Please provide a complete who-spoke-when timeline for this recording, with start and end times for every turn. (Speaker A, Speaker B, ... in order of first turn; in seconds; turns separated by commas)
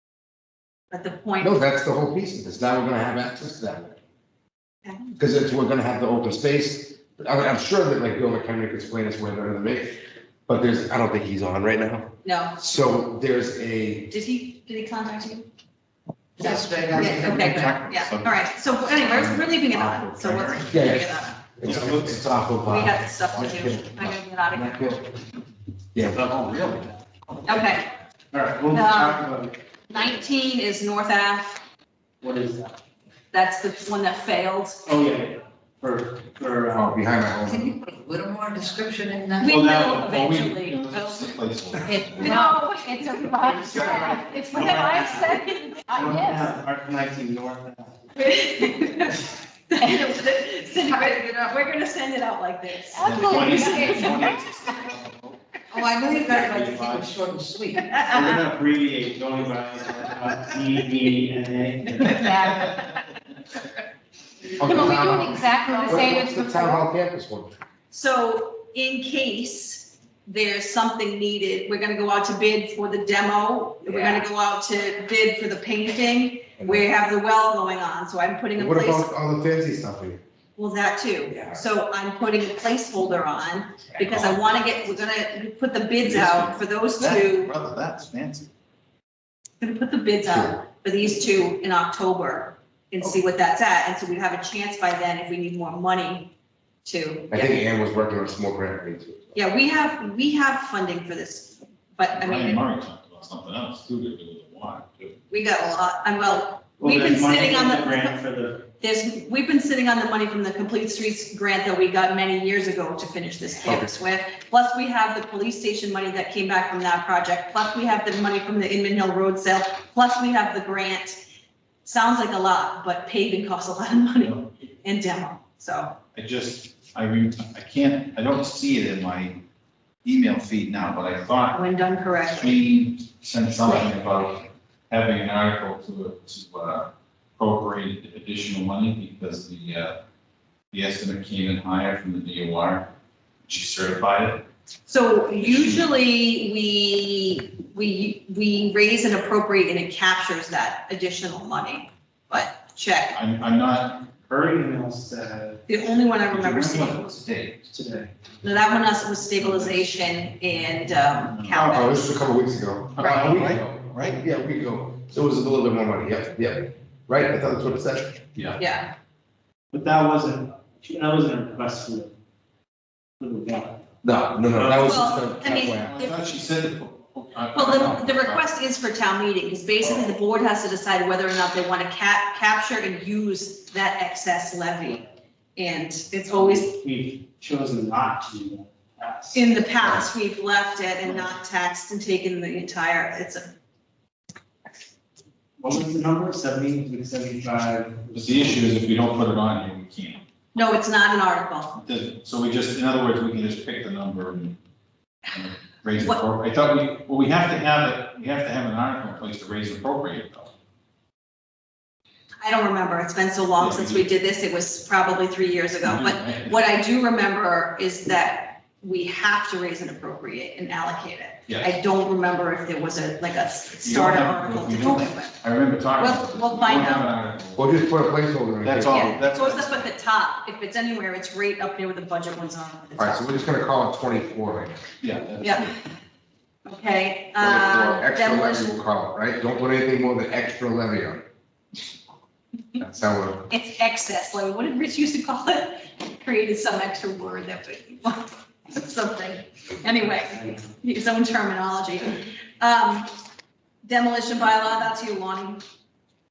Speaker A: 0.9-1.6, Speaker B: 1.4-4.0, Speaker B: 5.2-9.9, Speaker B: 10.5-14.1, Speaker A: 12.2-12.6, Speaker A: 14.1-15.5, Speaker C: 16.4-17.6, Speaker D: 16.4-20.6, Speaker A: 16.4-21.4, Speaker E: 20.4-20.6, Speaker B: 20.7-21.1, Speaker B: 21.6-25.1, Speaker E: 21.6-21.9, Speaker D: 21.7-22.4, Speaker A: 22.6-25.0, Speaker B: 25.9-26.3, Speaker D: 26.1-27.8, Speaker A: 27.4-27.9, Speaker E: 28.3-29.6, Speaker A: 28.7-29.2, Speaker A: 29.9-31.6, Speaker E: 32.2-32.8, Speaker A: 33.3-34.8, Speaker E: 34.9-37.0, Speaker B: 36.7-37.8, Speaker C: 37.5-39.6, Speaker A: 39.4-41.1, Speaker D: 39.4-42.4, Speaker C: 41.8-42.4, Speaker F: 42.2-46.5, Speaker A: 42.2-43.9, Speaker E: 43.4-44.0, Speaker D: 43.6-45.1, Speaker E: 44.5-45.4, Speaker E: 45.9-48.0, Speaker A: 48.1-54.7, Speaker C: 50.8-51.6, Speaker F: 52.9-54.4, Speaker D: 53.0-55.4, Speaker C: 55.7-58.3, Speaker E: 56.2-57.1, Speaker A: 57.8-58.2, Speaker E: 58.0-62.5, Speaker F: 62.0-62.9, Speaker D: 62.2-62.9, Speaker B: 64.6-67.5, Speaker F: 64.6-66.8, Speaker C: 64.8-66.0, Speaker A: 67.9-79.1, Speaker B: 73.9-74.3, Speaker B: 76.6-76.8, Speaker B: 78.6-80.2, Speaker A: 80.6-87.5, Speaker B: 81.3-81.6, Speaker D: 84.1-84.7, Speaker D: 86.0-88.5, Speaker A: 89.6-96.3, Speaker B: 90.2-90.5, Speaker A: 96.8-97.6, Speaker B: 97.3-99.4, Speaker A: 99.3-102.6, Speaker D: 102.2-105.2, Speaker A: 105.3-108.2, Speaker E: 106.8-108.7, Speaker A: 108.8-121.2, Speaker B: 113.6-113.9, Speaker A: 121.8-126.0, Speaker D: 124.2-124.5, Speaker D: 126.1-129.4, Speaker D: 130.0-131.6, Speaker A: 131.5-132.6, Speaker D: 132.3-140.0, Speaker D: 140.7-142.9, Speaker D: 143.5-144.5, Speaker A: 144.9-153.2, Speaker D: 145.4-145.9, Speaker D: 153.1-154.1, Speaker E: 154.3-155.6, Speaker A: 155.7-157.1, Speaker D: 156.3-157.7, Speaker E: 157.7-158.1, Speaker A: 158.4-162.2, Speaker D: 161.3-162.0, Speaker B: 161.6-168.2, Speaker D: 162.9-164.2, Speaker A: 163.0-163.3, Speaker D: 168.3-168.6, Speaker A: 168.6-168.9, Speaker E: 169.7-172.1, Speaker E: 173.2-173.8, Speaker B: 174.0-176.0, Speaker E: 174.5-175.3, Speaker A: 174.8-176.3, Speaker D: 175.5-178.5, Speaker A: 177.5-186.8, Speaker E: 186.3-189.5, Speaker A: 189.3-193.5, Speaker E: 195.6-198.7, Speaker D: 198.2-200.2, Speaker A: 200.6-201.8, Speaker D: 201.8-204.6, Speaker D: 205.3-210.5, Speaker A: 212.4-225.4, Speaker D: 213.6-214.1, Speaker D: 215.8-216.6, Speaker D: 221.5-221.8, Speaker D: 223.8-227.8, Speaker A: 226.0-227.1, Speaker B: 227.6-229.2, Speaker D: 228.6-229.9, Speaker A: 228.9-233.5, Speaker B: 233.0-234.8, Speaker D: 235.0-235.8, Speaker A: 235.4-235.7, Speaker A: 236.7-238.8, Speaker B: 237.4-241.3, Speaker B: 242.8-243.5, Speaker A: 243.5-253.1, Speaker A: 253.8-255.6